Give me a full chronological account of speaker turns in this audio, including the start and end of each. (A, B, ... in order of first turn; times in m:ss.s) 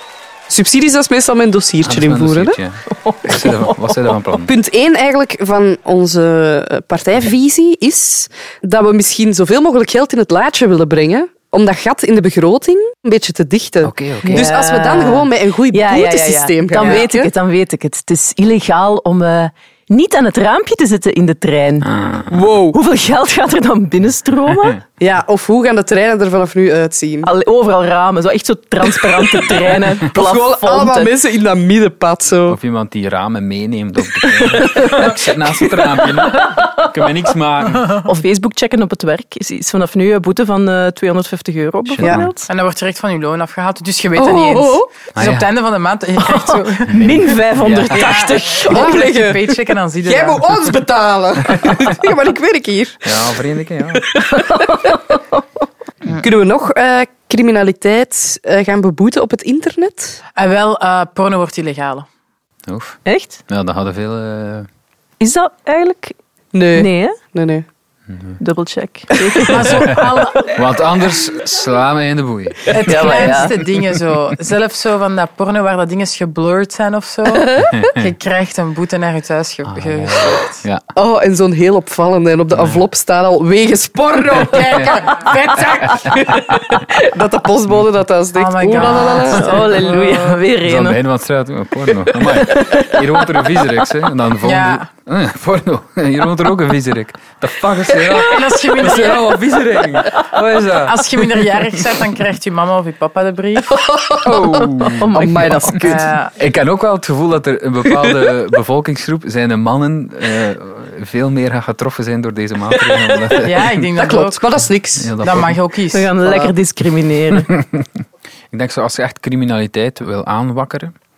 0:00.5-0:02.6 A
0:01.8-0:04.5 B
0:03.0-0:04.2 C
0:04.4-0:17.3 A
0:13.8-0:14.5 B
0:14.2-0:21.9 C
0:21.8-0:22.3 B
0:22.3-0:22.8 A
0:22.7-0:24.8 C
0:25.0-0:27.3 A
0:27.2-0:31.2 C
0:30.0-0:32.6 A
0:32.5-0:38.0 B
0:34.2-0:35.1 C
0:38.0-0:42.5 C
0:41.9-0:42.3 B
0:42.0-0:42.3 A
0:42.5-0:47.4 D
0:44.2-0:44.9 A
0:45.2-0:45.5 B
0:46.2-0:49.0 C
0:46.9-0:48.2 B
0:47.9-0:50.5 D
0:48.6-0:53.4 A
0:53.1-0:54.1 B
0:54.0-0:54.6 A
0:54.3-0:55.4 C
0:56.2-1:00.2 A
1:00.4-1:02.1 D
1:02.7-1:04.7 B
1:03.0-1:03.4 C
1:05.2-1:06.2 C
1:06.5-1:07.6 A
1:06.8-1:07.2 C
1:08.1-1:08.4 B
1:08.4-1:09.9 C
1:09.4-1:10.5 D
1:09.7-1:13.4 B
1:12.7-1:20.6 D
1:12.8-1:13.6 C
1:17.4-1:17.9 A
1:17.6-1:18.0 B
1:19.7-1:20.8 B
1:21.0-1:29.6 A
1:22.5-1:22.8 B
1:24.4-1:26.4 D
1:28.4-1:30.4 D
1:29.3-1:31.0 C
1:30.6-1:41.9 B
1:32.5-1:33.0 C
1:34.4-1:34.9 D
1:38.2-1:39.2 D
1:40.7-1:43.8 D
1:43.7-1:46.1 A
1:44.2-1:45.1 B
1:44.9-1:46.0 C
1:45.8-1:46.4 D
1:46.4-1:53.8 B
1:53.4-1:54.4 D
1:54.0-1:55.2 A
1:55.0-1:55.6 B
1:55.2-1:56.5 D
1:55.9-1:57.5 C
1:58.5-2:00.9 B